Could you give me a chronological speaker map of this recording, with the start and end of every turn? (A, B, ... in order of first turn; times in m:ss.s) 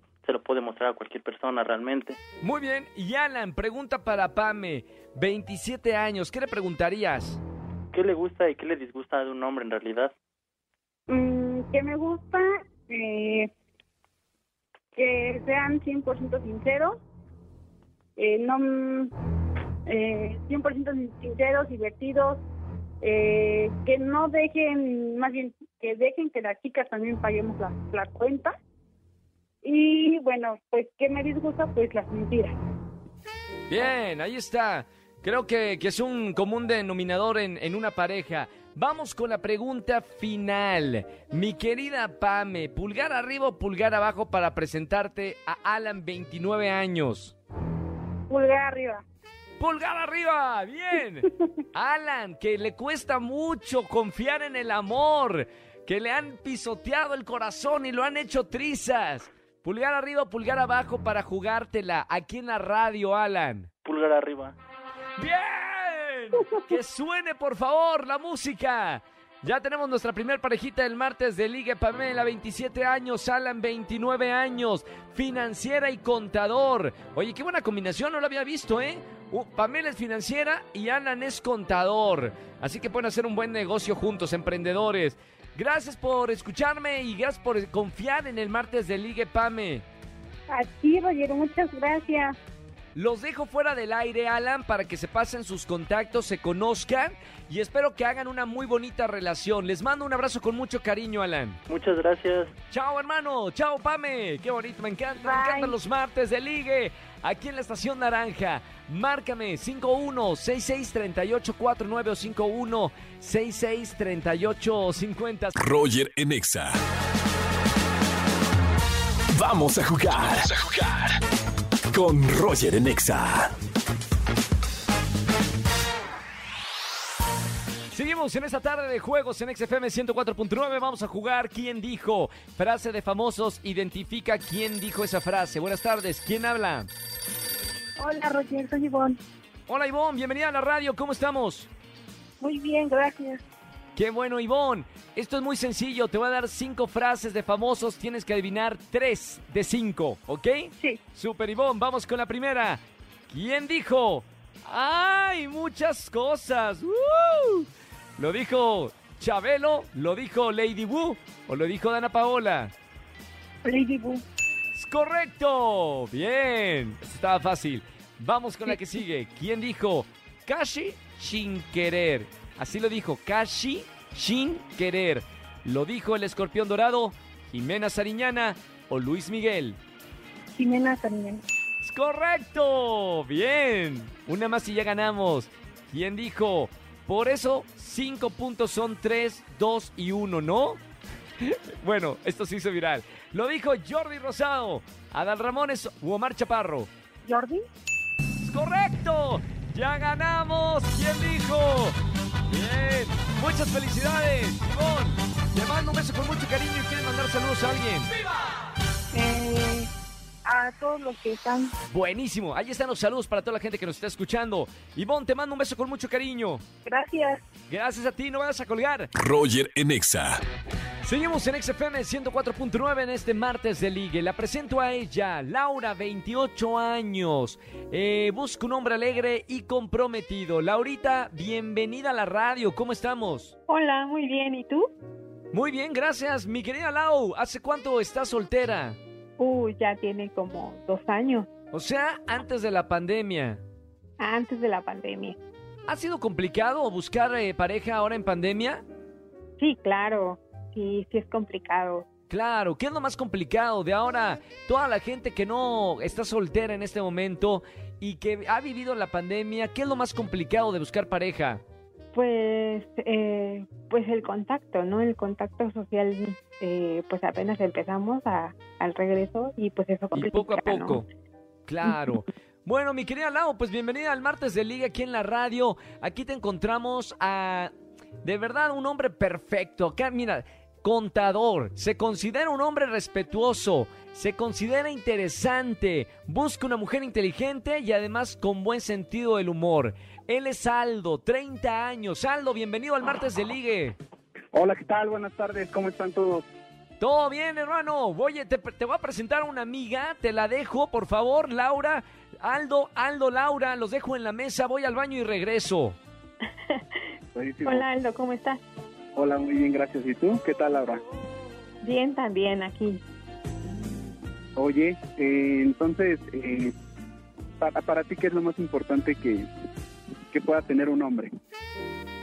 0:00.2-0:02.2 A
0:02.4-0:07.4 B
0:07.9-0:10.1 A
0:11.1-0:13.5 C
0:14.9-0:17.0 C
0:18.2-0:19.1 C
0:19.8-0:22.4 C
0:23.0-0:28.5 C
0:29.6-0:32.6 C
0:33.7-0:47.3 B
0:48.3-0:49.0 C
0:49.6-1:03.7 B
1:03.8-1:04.6 A
1:05.2-1:29.8 B
1:30.5-1:32.4 C
1:33.0-1:41.6 B
1:41.7-1:42.5 A
1:42.7-1:55.5 B
1:45.2-1:45.7 C
1:55.6-1:56.8 D
1:59.3-2:01.2 D
2:01.9-2:03.5 D
2:07.9-2:16.9 B
2:18.0-2:19.2 C
2:19.7-2:21.7 B
2:22.4-2:23.4 C
2:24.0-2:42.7 B
2:43.6-2:44.2 C
2:44.7-2:59.8 B
3:00.5-3:01.4 C
3:01.8-3:10.8 B
3:11.4-3:16.9 B
3:17.2-3:17.6 C
3:18.4-3:22.0 B
3:22.5-3:28.1 B
3:29.1-3:29.9 C
3:30.4-3:31.7 C
3:31.9-3:36.6 B
3:36.8-3:37.4 C
3:37.7-3:39.1 B
3:39.2-3:40.4 D
3:41.0-3:53.6 B
3:53.7-3:54.9 E
3:55.5-3:59.0 B
3:59.4-4:01.5 E
4:01.7-4:03.6 B
4:04.2-4:05.4 E
4:05.9-4:08.8 B
4:09.6-4:12.1 E
4:12.3-4:21.6 B
4:22.1-4:31.0 E
4:30.1-4:31.0 B
4:31.7-4:37.7 B
4:38.2-4:54.0 B
4:54.5-4:56.4 F
4:57.0-5:06.0 B
5:06.7-5:07.0 E
5:07.3-5:07.8 F
5:07.6-5:08.6 E
5:09.2-5:11.0 F
5:11.8-5:13.0 E
5:14.6-5:16.7 F
5:17.6-5:19.5 F
5:20.3-5:21.3 F